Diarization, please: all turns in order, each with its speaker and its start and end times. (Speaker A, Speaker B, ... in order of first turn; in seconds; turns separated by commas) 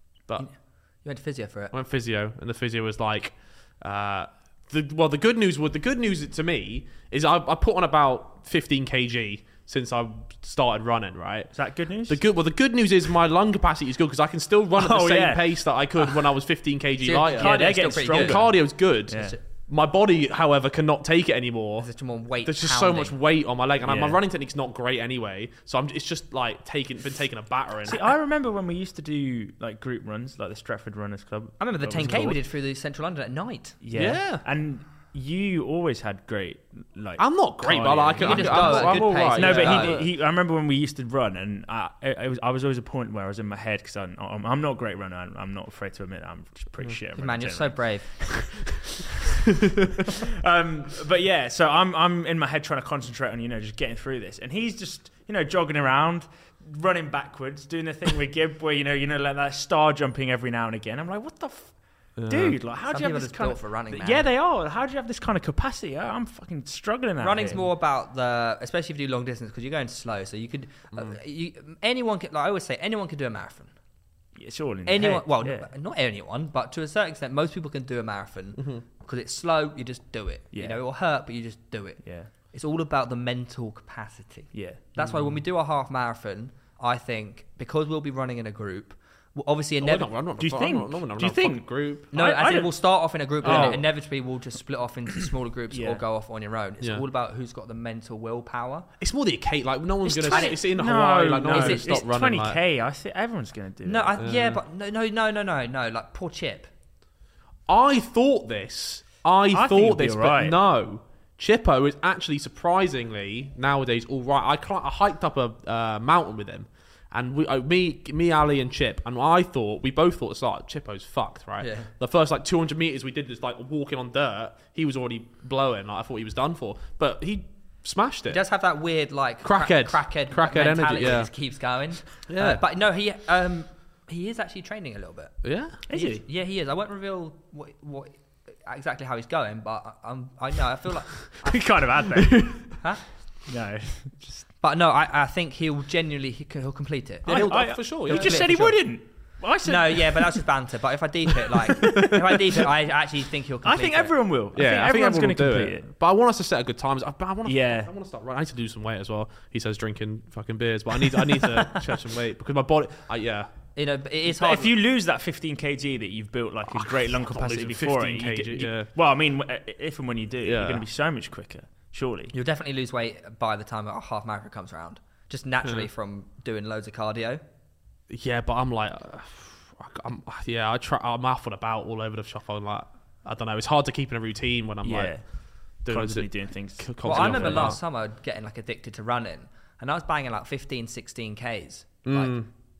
Speaker A: 0.4-1.7, Speaker B: 1.7-21.9, Speaker C: 11.5-12.2, Speaker C: 14.8-16.2, Speaker A: 17.0-19.4, Speaker C: 17.4-19.4, Speaker A: 21.8-23.1, Speaker B: 22.4-28.1, Speaker C: 23.8-24.2, Speaker C: 27.9-32.4, Speaker A: 31.6-33.8, Speaker C: 33.8-48.6, Speaker B: 33.9-34.4, Speaker B: 37.2-40.1, Speaker A: 38.2-40.0, Speaker A: 47.1-48.1, Speaker C: 50.2-67.7, Speaker B: 62.1-62.6, Speaker A: 62.9-64.2, Speaker A: 67.2-73.7, Speaker C: 74.3-75.7, Speaker A: 74.8-90.1, Speaker B: 78.6-78.8, Speaker C: 80.5-80.8, Speaker C: 82.0-82.3, Speaker C: 84.5-85.1, Speaker B: 85.0-85.3, Speaker B: 89.8-92.1, Speaker C: 90.4-92.7, Speaker A: 92.1-98.9, Speaker C: 93.4-93.8, Speaker B: 93.4-93.8, Speaker C: 95.7-96.0, Speaker B: 99.0-102.6, Speaker C: 100.0-104.1, Speaker A: 100.2-100.7, Speaker A: 101.4-102.0, Speaker A: 103.8-106.7, Speaker B: 104.2-104.6, Speaker B: 107.7-128.4, Speaker C: 109.5-110.6, Speaker A: 121.6-121.9, Speaker A: 128.3-141.6, Speaker B: 129.4-131.3, Speaker B: 132.3-132.6, Speaker B: 135.4-135.8, Speaker C: 135.9-136.2, Speaker C: 141.4-142.8, Speaker B: 142.1-142.7, Speaker C: 143.4-144.4, Speaker A: 144.6-154.1, Speaker C: 147.2-150.4, Speaker B: 147.3-148.5, Speaker C: 151.9-152.6, Speaker C: 153.6-155.9, Speaker B: 154.5-163.5, Speaker C: 157.4-157.9, Speaker A: 163.7-164.7, Speaker C: 164.3-172.3, Speaker B: 166.7-168.9, Speaker B: 170.4-170.8, Speaker A: 172.3-177.4, Speaker B: 178.1-187.8, Speaker C: 184.8-187.8, Speaker A: 187.0-192.5, Speaker B: 192.0-192.5